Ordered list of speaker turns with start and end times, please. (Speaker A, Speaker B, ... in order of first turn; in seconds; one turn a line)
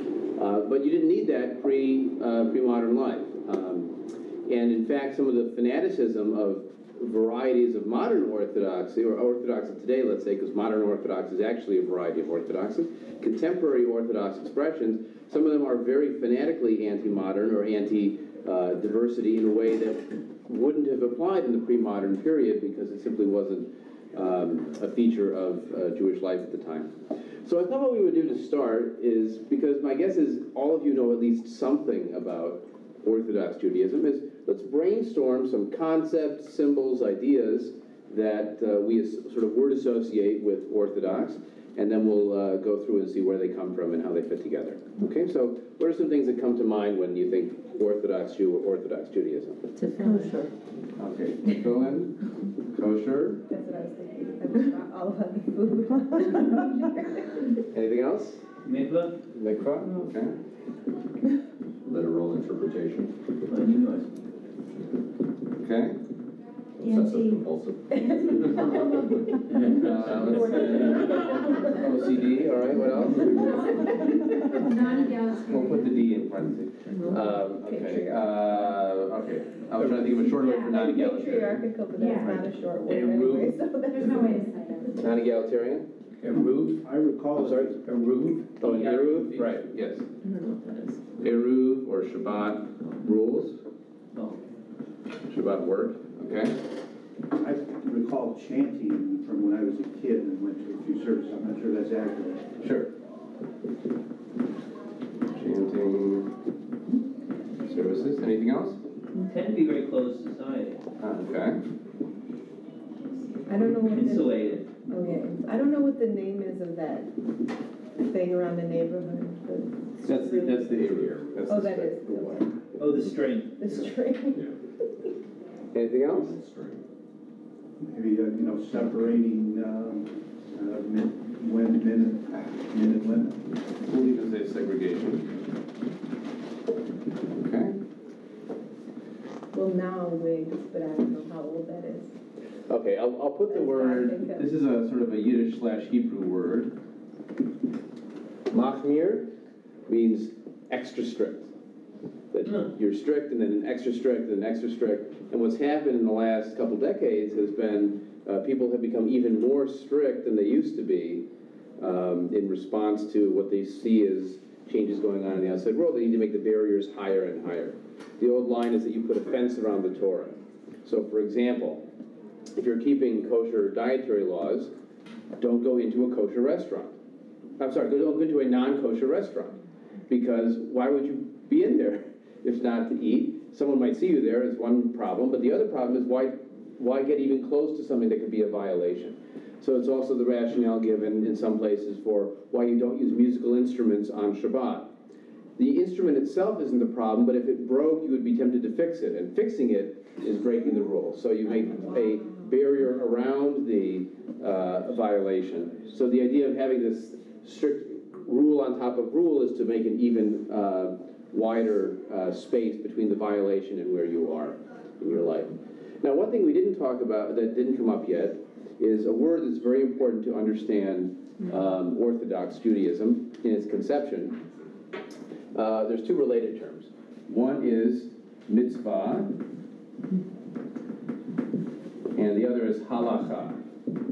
Speaker A: 0.3-26.9
Speaker A: 27.4-49.6
Speaker B: 49.8-50.4
Speaker C: 50.0-50.5
Speaker A: 51.0-52.2
Speaker A: 52.7-53.4
Speaker C: 53.5-57.5
Speaker A: 57.7-58.4
Speaker D: 58.6-59.1
Speaker A: 59.3-60.3
Speaker E: 61.8-63.1
Speaker D: 63.5-64.2
Speaker A: 65.6-66.0
Speaker E: 66.8-68.7
Speaker B: 66.8-67.3
Speaker A: 69.7-73.5
Speaker C: 70.0-71.4
Speaker B: 73.4-75.9
Speaker A: 75.5-81.6
Speaker C: 77.0-78.2
Speaker C: 80.2-84.3
Speaker B: 80.4-80.7
Speaker B: 81.9-82.4
Speaker B: 83.9-85.0
Speaker A: 85.0-85.9
Speaker F: 86.2-89.5
Speaker A: 87.3-87.7
Speaker A: 88.6-90.0
Speaker D: 88.7-89.2
Speaker C: 90.2-90.9
Speaker A: 91.2-93.6
Speaker A: 95.2-96.6
Speaker F: 97.3-102.7
Speaker A: 102.6-102.9
Speaker A: 105.3-106.3
Speaker A: 107.7-108.8
Speaker D: 109.2-110.8
Speaker A: 111.0-111.6
Speaker C: 113.5-117.2
Speaker D: 113.6-114.7
Speaker C: 118.0-120.9
Speaker A: 120.0-122.2
Speaker E: 120.8-121.1
Speaker C: 121.4-122.5
Speaker D: 122.8-123.6
Speaker C: 123.6-124.4
Speaker A: 125.7-126.3
Speaker E: 126.0-126.8
Speaker F: 127.8-133.4
Speaker A: 133.9-135.3
Speaker A: 137.3-137.8
Speaker C: 139.5-142.1
Speaker A: 142.7-146.7
Speaker C: 143.5-144.5
Speaker A: 148.5-149.3
Speaker A: 149.9-151.5
Speaker A: 152.3-161.2
Speaker A: 161.8-171.8
Speaker A: 172.6-174.7
Speaker A: 175.4-176.9
Speaker A: 177.6-194.9
Speaker A: 195.6-224.4
Speaker A: 225.5-229.3
Speaker A: 232.1-233.6